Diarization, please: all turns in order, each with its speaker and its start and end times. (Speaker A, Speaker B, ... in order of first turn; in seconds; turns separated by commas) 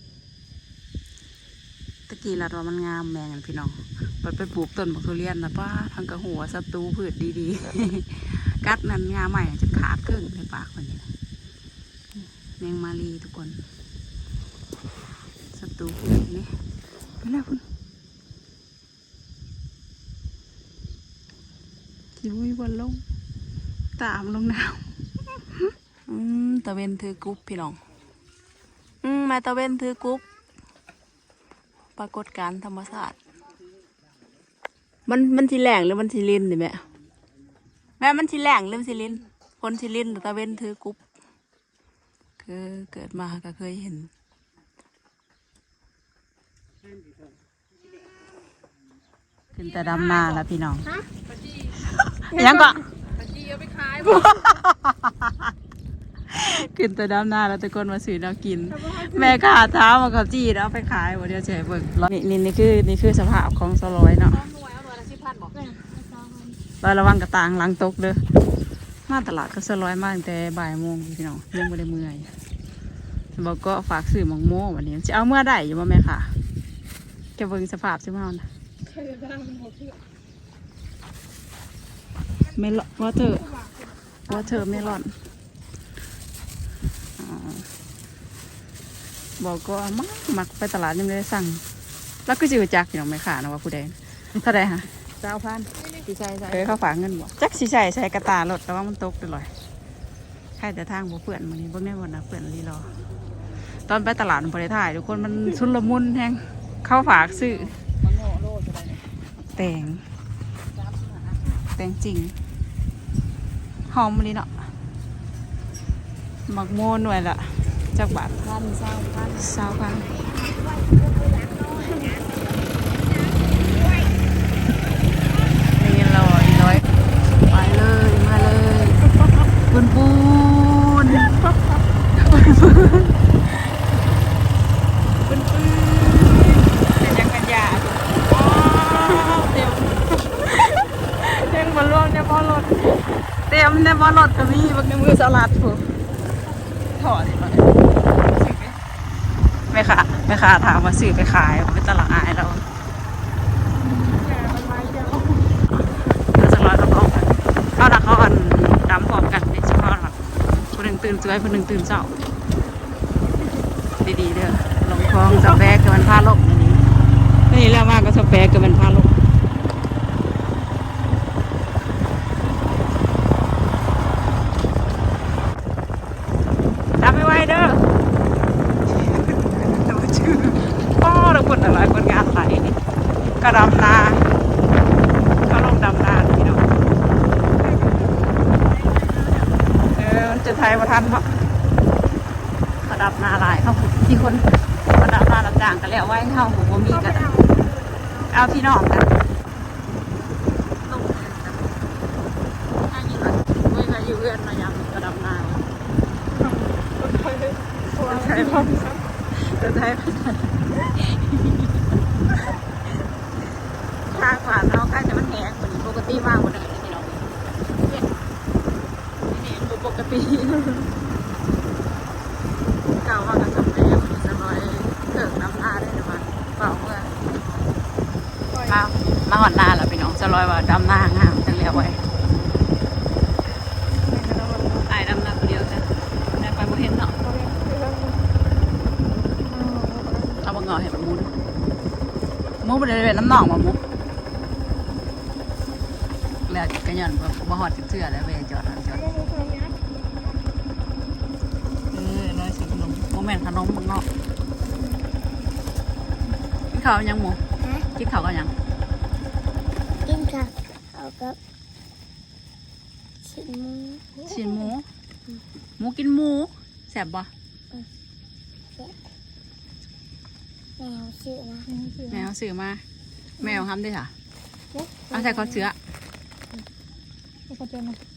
Speaker A: 2.1-11.1, Speaker A: 12.6-13.6, Speaker A: 15.5-16.5, Speaker A: 17.2-17.7, Speaker A: 22.2-23.0, Speaker A: 24.0-27.8, Speaker A: 29.0-30.2, Speaker A: 32.0-33.2, Speaker A: 35.1-36.8, Speaker A: 38.0-41.0, Speaker A: 42.4-44.1, Speaker A: 49.5-51.0, Speaker A: 51.6-52.9, Speaker B: 52.3-52.7, Speaker B: 53.3-54.3, Speaker A: 53.7-55.5, Speaker A: 56.3-65.5, Speaker B: 58.8-59.4, Speaker A: 66.8-68.2, Speaker A: 69.1-72.3, Speaker A: 73.3-76.3, Speaker A: 77.4-78.5, Speaker B: 78.9-80.0, Speaker A: 82.5-83.5, Speaker A: 84.3-85.2, Speaker B: 84.3-84.8, Speaker A: 87.2-87.7, Speaker A: 89.4-91.7, Speaker A: 92.3-99.5, Speaker A: 100.6-102.9, Speaker A: 103.9-110.1, Speaker A: 110.8-112.4, Speaker A: 113.9-114.7, Speaker A: 116.5-120.2, Speaker C: 120.3-124.1, Speaker A: 125.6-126.9, Speaker A: 127.4-131.4, Speaker A: 132.2-133.2, Speaker A: 135.3-142.9, Speaker A: 143.5-145.9, Speaker A: 146.9-148.8, Speaker A: 149.7-152.6, Speaker B: 153.8-155.6, Speaker A: 155.9-160.2, Speaker A: 160.7-162.2, Speaker A: 164.0-166.8, Speaker A: 167.5-169.2, Speaker A: 177.0-177.8, Speaker A: 179.1-182.8, Speaker A: 183.4-184.3, Speaker A: 185.4-186.7, Speaker B: 187.5-189.5, Speaker A: 189.7-191.4, Speaker A: 192.8-197.3, Speaker B: 196.9-197.8, Speaker A: 198.3-199.2, Speaker A: 200.8-201.7, Speaker A: 202.8-205.7, Speaker B: 206.4-209.0, Speaker A: 208.0-211.8, Speaker A: 214.1-218.1, Speaker A: 219.3-220.9, Speaker A: 223.0-227.2, Speaker B: 228.5-228.8, Speaker A: 228.7-232.0, Speaker B: 233.9-234.9, Speaker A: 234.8-237.2, Speaker B: 237.2-238.2, Speaker B: 239.5-240.4, Speaker A: 240.4-241.3, Speaker A: 242.6-243.8, Speaker A: 246.5-249.2, Speaker B: 249.0-249.8, Speaker A: 251.9-254.1, Speaker A: 256.7-257.4, Speaker A: 257.9-258.5, Speaker C: 260.1-261.4, Speaker C: 263.2-264.2, Speaker A: 264.2-264.9, Speaker A: 265.8-267.3, Speaker C: 270.8-271.7, Speaker B: 271.7-272.3, Speaker A: 272.1-272.9, Speaker A: 273.4-274.1, Speaker B: 274.7-275.2, Speaker A: 275.1-275.8, Speaker B: 277.5-278.0